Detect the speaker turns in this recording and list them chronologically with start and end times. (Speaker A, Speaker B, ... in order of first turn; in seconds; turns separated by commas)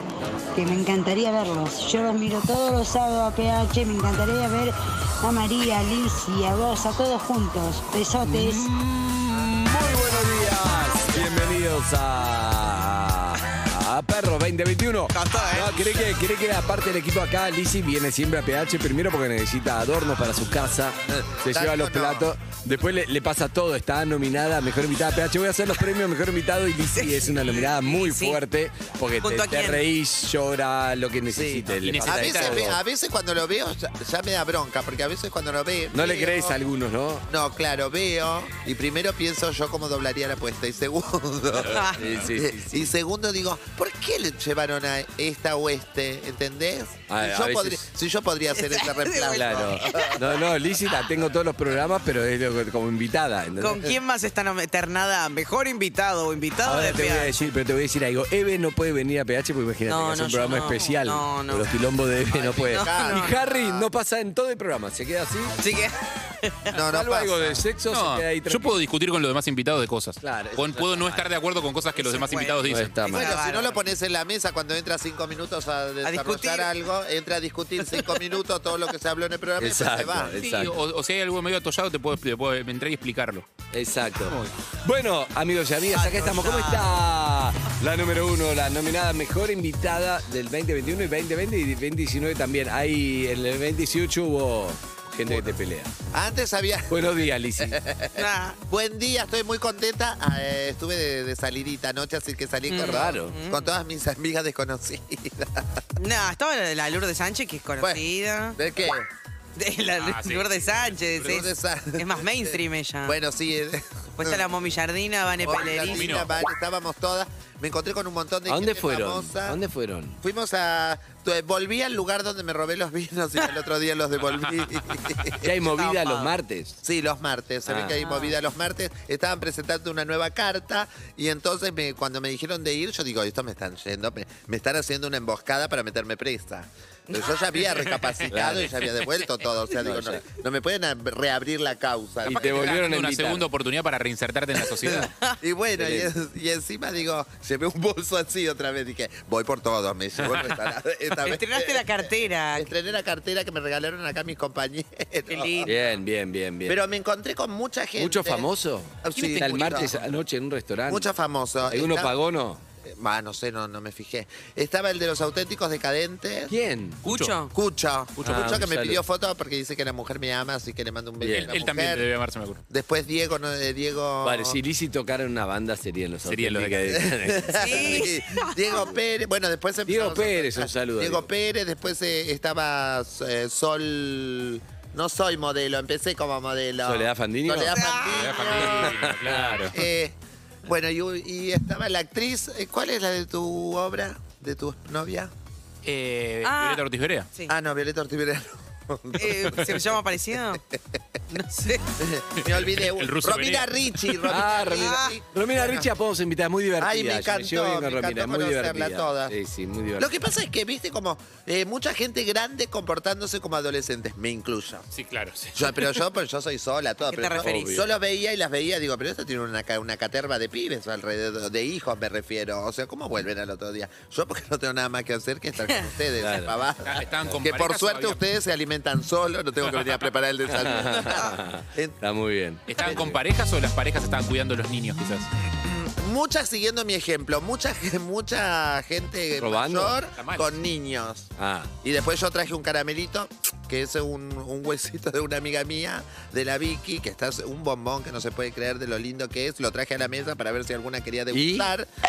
Speaker A: 0.5-8.7, Speaker B: 8.2-32.8, Speaker C: 15.1-16.1, Speaker D: 21.1-22.3, Speaker C: 26.9-28.4, Speaker C: 29.2-29.8, Speaker D: 31.3-36.5, Speaker E: 31.8-32.7, Speaker B: 35.9-37.3, Speaker D: 37.3-50.2, Speaker B: 41.6-43.0, Speaker B: 47.1-47.9, Speaker C: 48.5-50.2, Speaker B: 49.3-53.9, Speaker C: 53.6-57.5, Speaker B: 56.6-65.6, Speaker C: 59.9-61.7, Speaker D: 62.3-63.9, Speaker C: 62.6-63.4, Speaker C: 65.6-66.8, Speaker D: 66.7-67.6, Speaker B: 66.8-68.8, Speaker E: 67.9-73.0, Speaker B: 70.2-71.3, Speaker C: 71.9-73.8, Speaker B: 72.7-73.3, Speaker D: 73.0-80.3, Speaker C: 76.0-76.7, Speaker B: 79.6-80.8, Speaker E: 80.4-83.5, Speaker B: 83.7-95.9, Speaker E: 84.3-84.5, Speaker C: 85.9-86.9, Speaker D: 96.1-97.0, Speaker B: 96.9-97.8, Speaker D: 97.6-105.7, Speaker C: 98.2-98.6, Speaker C: 102.7-103.7, Speaker B: 102.7-103.4, Speaker C: 106.0-108.5, Speaker D: 108.5-109.1, Speaker C: 109.6-113.2, Speaker E: 110.0-110.7, Speaker D: 111.2-114.4, Speaker C: 114.2-116.1, Speaker D: 115.4-119.6, Speaker E: 115.8-116.3, Speaker B: 118.5-120.2, Speaker D: 120.2-125.4, Speaker B: 125.4-126.8, Speaker C: 125.6-126.3, Speaker D: 126.8-142.9, Speaker B: 127.7-128.0, Speaker C: 128.0-128.4, Speaker B: 138.3-138.8, Speaker B: 139.8-140.2, Speaker B: 142.2-143.4, Speaker E: 142.2-145.1, Speaker D: 145.4-155.8, Speaker B: 145.8-146.1, Speaker E: 150.2-150.5, Speaker C: 151.2-152.7, Speaker C: 155.3-155.9, Speaker B: 155.7-156.8, Speaker D: 156.7-158.5, Speaker B: 158.0-161.1, Speaker D: 159.0-159.9, Speaker E: 159.1-160.1, Speaker D: 160.9-162.1, Speaker B: 161.6-162.6, Speaker D: 162.8-166.5, Speaker B: 166.5-167.0, Speaker E: 167.0-167.4, Speaker C: 167.1-167.5, Speaker D: 167.5-172.1, Speaker E: 168.2-168.5, Speaker B: 168.2-169.0, Speaker B: 171.2-171.5, Speaker E: 171.2-172.6, Speaker D: 172.7-174.6, Speaker B: 174.2-178.1, Speaker E: 176.2-177.0, Speaker D: 177.0-189.1, Speaker C: 177.6-178.9, Speaker B: 179.8-181.3, Speaker B: 186.8-187.8, Speaker C: 187.7-188.3, Speaker E: 188.1-189.8, Speaker B: 188.6-189.7, Speaker D: 189.7-195.3, Speaker E: 195.8-197.3, Speaker C: 196.4-197.5, Speaker D: 197.5-199.7, Speaker C: 199.2-200.6, Speaker C: 201.3-201.9, Speaker D: 202.0-205.9, Speaker E: 202.4-204.2, Speaker B: 204.2-210.1, Speaker C: 204.7-205.2, Speaker D: 206.8-209.3, Speaker D: 210.0-214.9, Speaker E: 214.9-215.5, Speaker D: 215.5-232.0, Speaker C: 217.0-217.8, Speaker B: 217.4-217.9, Speaker B: 226.2-226.6, Speaker E: 226.8-228.2, Speaker E: 229.6-230.1, Speaker B: 230.5-233.2, Speaker E: 232.7-235.3, Speaker D: 235.6-241.3, Speaker B: 239.3-240.0, Speaker E: 240.2-240.6, Speaker B: 241.4-241.7, Speaker D: 241.8-251.9, Speaker B: 251.3-251.7